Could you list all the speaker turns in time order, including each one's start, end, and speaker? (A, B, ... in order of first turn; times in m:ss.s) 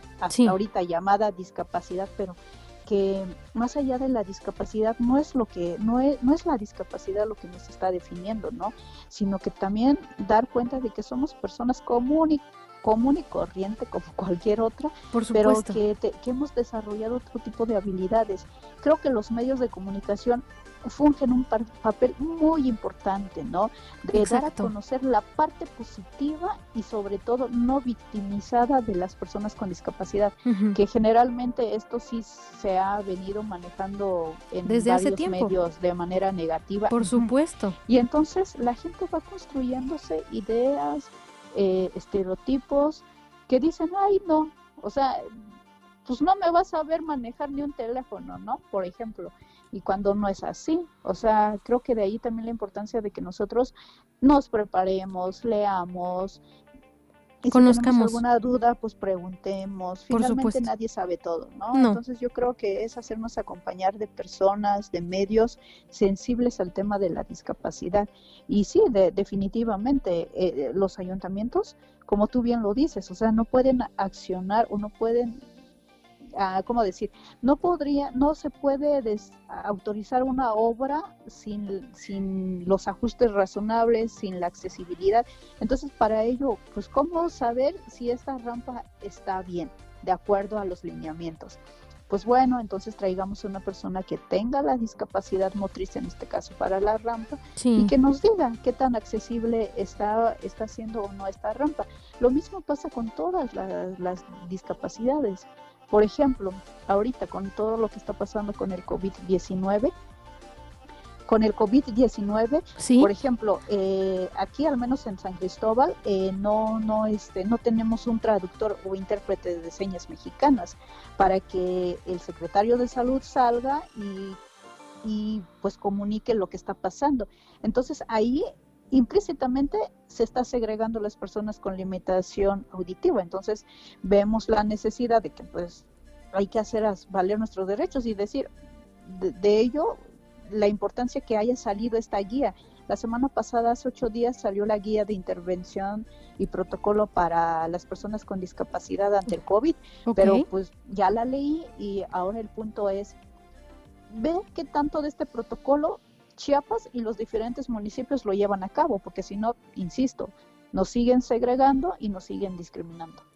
0:00.2-0:37.3 A
0:15.1-0:15.8 B
0:24.2-0:24.7 B
0:30.4-0:30.8 B
0:34.6-0:35.5 B
0:36.9-0:37.8 B
0:37.9-0:45.4 A
0:46.0-0:56.4 A
0:57.4-1:15.4 A
0:57.5-0:58.2 B
1:00.1-1:00.6 B
1:01.7-1:02.0 B
1:16.4-1:31.6 A
1:32.1-1:49.9 A
1:37.6-1:37.9 B
1:51.3-2:04.4 A
1:52.8-1:53.1 B
2:05.0-2:18.5 A
2:19.0-2:33.2 A
2:30.1-2:30.4 B
2:34.1-2:43.2 A